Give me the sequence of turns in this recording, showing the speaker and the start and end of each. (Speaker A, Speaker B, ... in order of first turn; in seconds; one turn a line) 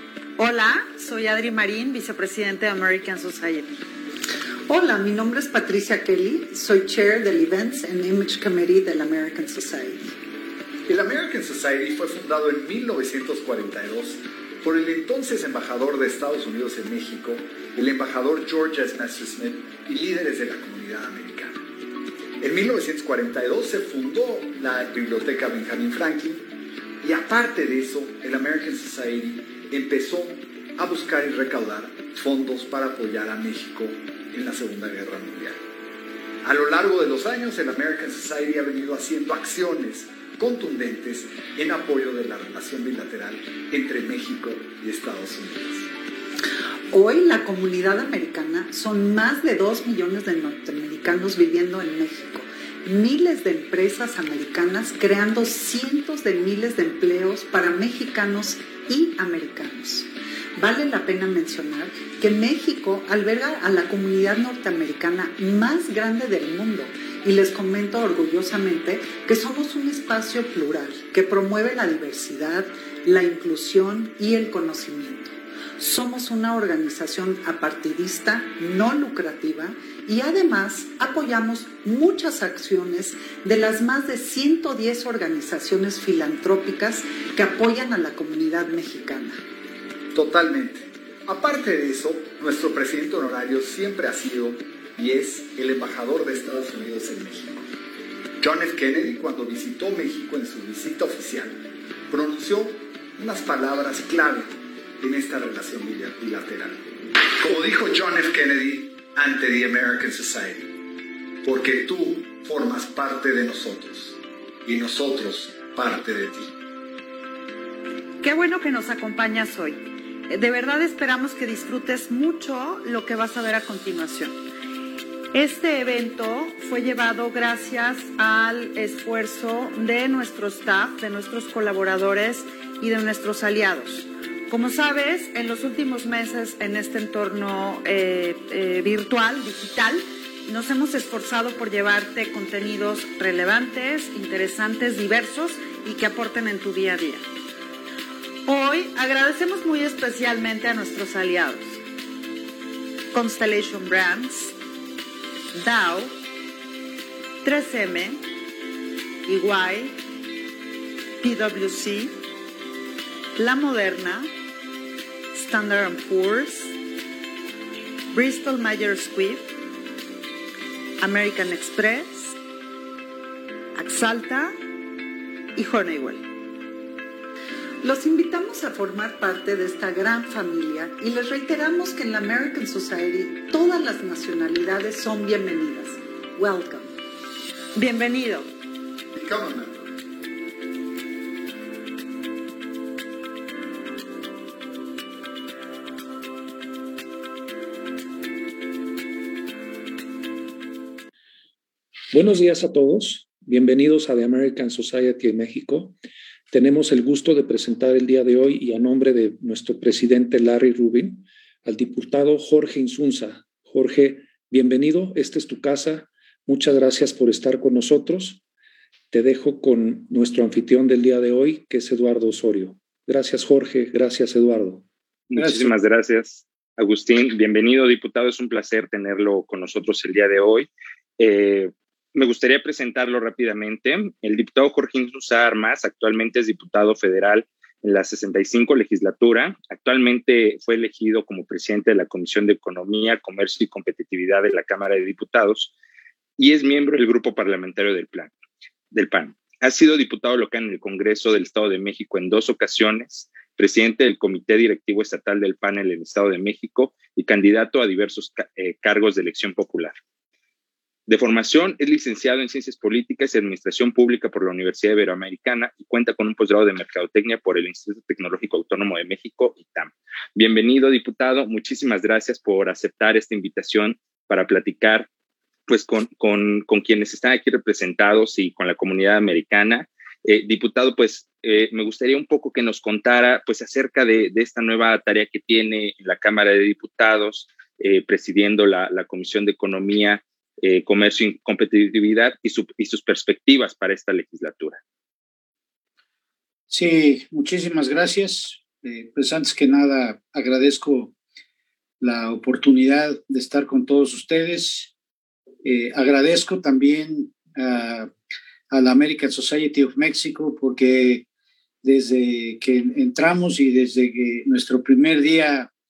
Speaker A: 0.4-3.7
Speaker B: 4.7-10.1
Speaker C: 10.9-21.6
Speaker C: 22.4-26.5
Speaker C: 27.0-35.6
Speaker C: 36.4-45.9
Speaker B: 46.9-89.4
Speaker C: 90.1-97.7
Speaker C: 98.4-110.7
Speaker C: 111.4-116.5
Speaker A: 118.2-124.3
Speaker A: 125.3-147.2
Speaker A: 148.4-151.8
Speaker A: 153.1-154.6
Speaker A: 155.5-156.1
Speaker A: 157.4-158.2
Speaker A: 159.3-159.9
Speaker A: 161.2-162.1
Speaker A: 163.4-164.3
Speaker A: 165.3-166.7
Speaker A: 168.1-169.5
Speaker A: 171.0-172.3
Speaker A: 173.8-174.6
Speaker A: 175.6-176.3
Speaker B: 177.8-186.9
Speaker A: 187.8-188.5
Speaker C: 189.1-189.9
Speaker D: 202.1-206.0
Speaker D: 206.5-218.4
Speaker D: 219.1-224.9
Speaker E: 225.3-245.7
Speaker F: 225.4-225.7
Speaker E: 246.4-248.3
Speaker E: 248.9-259.9
Speaker E: 261.1-275.1
Speaker E: 275.7-294.8
Speaker F: 296.7-301.1
Speaker F: 302.0-304.9
Speaker F: 305.6-308.1
Speaker F: 308.7-311.3
Speaker F: 311.8-315.7